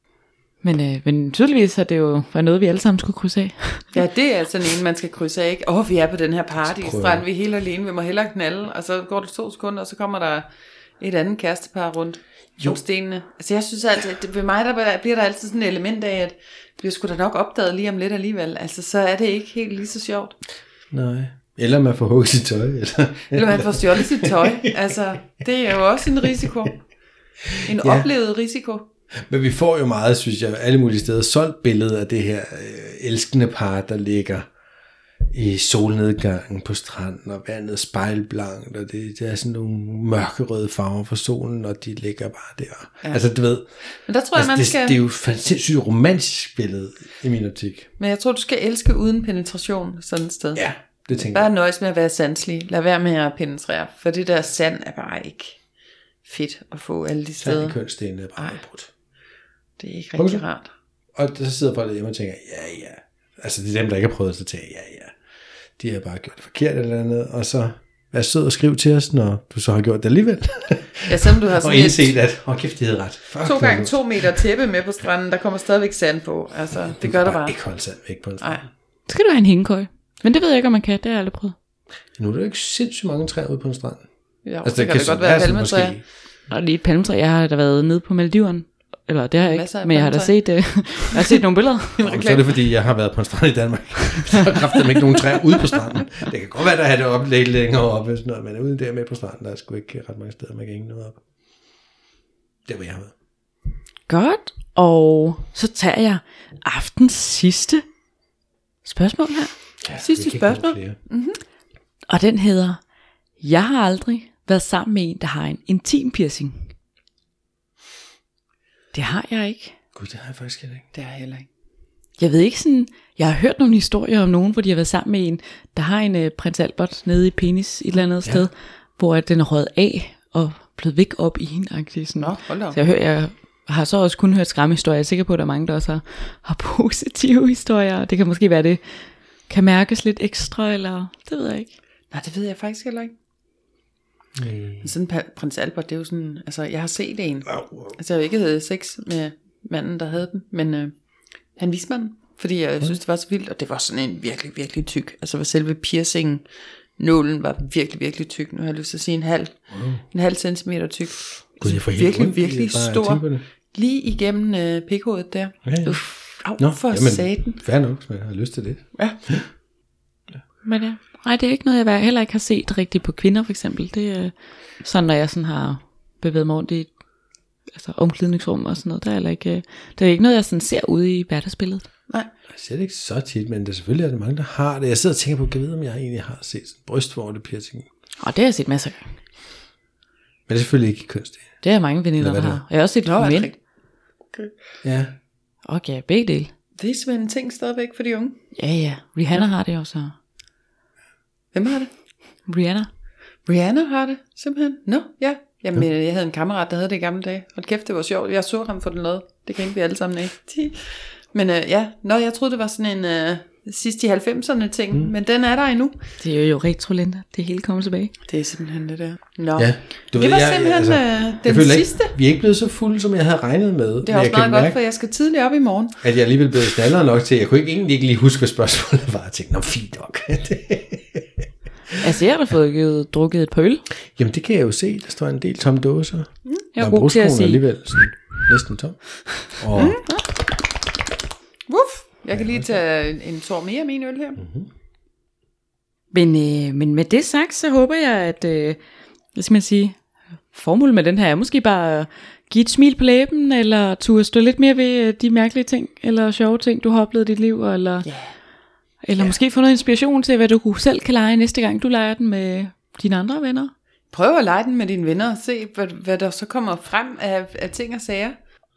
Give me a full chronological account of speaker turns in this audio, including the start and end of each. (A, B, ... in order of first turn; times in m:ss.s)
0:00.6-0:03.9 A
0:03.9-0:10.5 B
0:06.6-0:07.2 C
0:11.0-0:20.4 B
0:20.9-0:25.0 C
0:23.3-0:26.8 B
0:26.2-0:26.7 C
0:27.4-0:28.1 C
0:27.6-0:28.9 B
0:29.2-0:34.5 C
0:35.3-0:43.7 C
0:43.9-0:45.0 B
0:44.3-0:47.9 C
0:48.0-0:50.6 B
0:50.5-0:51.4 C
0:51.2-0:55.6 B
0:56.2-0:57.8 B
0:57.4-0:58.9 C
0:59.8-1:00.7 B
1:00.2-1:00.4 C
1:01.1-1:05.1 C
1:05.8-1:14.4 C
1:11.0-1:12.2 B
1:13.4-1:17.6 B
1:17.0-1:18.6 C
1:18.4-1:18.6 B
1:19.1-1:21.5 A
1:22.2-1:24.0 C
1:24.4-1:26.0 B
1:24.6-1:26.0 C
1:26.5-1:32.0 A
1:29.4-1:31.2 B
1:32.0-1:32.5 B
1:32.0-1:41.2 C
1:42.6-1:43.1 C
1:44.1-1:47.8 A
1:48.8-1:49.5 A
1:49.8-1:51.0 C
1:50.0-1:51.4 B
1:52.1-1:52.8 A
1:53.4-1:56.7 A
1:58.9-1:59.7 A
1:59.9-2:00.8 C
2:00.9-2:01.5 B
2:02.2-2:18.8 A
2:12.2-2:12.8 B
2:19.5-2:21.7 A
2:22.1-2:23.1 B
2:24.4-2:24.9 C
2:24.8-2:30.9 B
2:27.5-2:27.9 C
2:31.6-2:36.4 B
2:37.0-2:47.6 B
2:39.7-2:40.0 C
2:41.6-2:43.4 C
2:45.6-2:49.5 C
2:50.6-2:56.9 A
2:57.7-3:01.8 A
3:02.5-3:07.9 C
3:08.2-3:09.1 A
3:10.5-3:11.5 C
3:11.6-3:13.5 A
3:12.2-3:12.6 C
3:13.0-3:13.5 B
3:14.8-3:15.1 C
3:15.6-3:16.5 A
3:16.8-3:18.4 B
3:18.6-3:20.1 A
3:21.5-3:21.9 B
3:22.5-3:22.9 A
3:23.4-3:36.0 B
3:36.2-3:38.1 A
3:38.3-3:42.1 B
3:39.6-3:44.8 C
3:44.0-3:46.0 B
3:46.0-3:52.0 C
3:52.0-3:53.8 A
3:54.1-4:00.0 C
3:56.7-3:57.6 A
3:59.7-4:00.0 B
4:01.7-4:04.4 B
4:02.3-4:02.8 C
4:04.4-4:04.7 C
4:06.1-4:08.8 A
4:09.3-4:18.1 A
4:18.0-4:18.3 B
4:19.0-4:23.7 A
4:24.1-4:28.4 B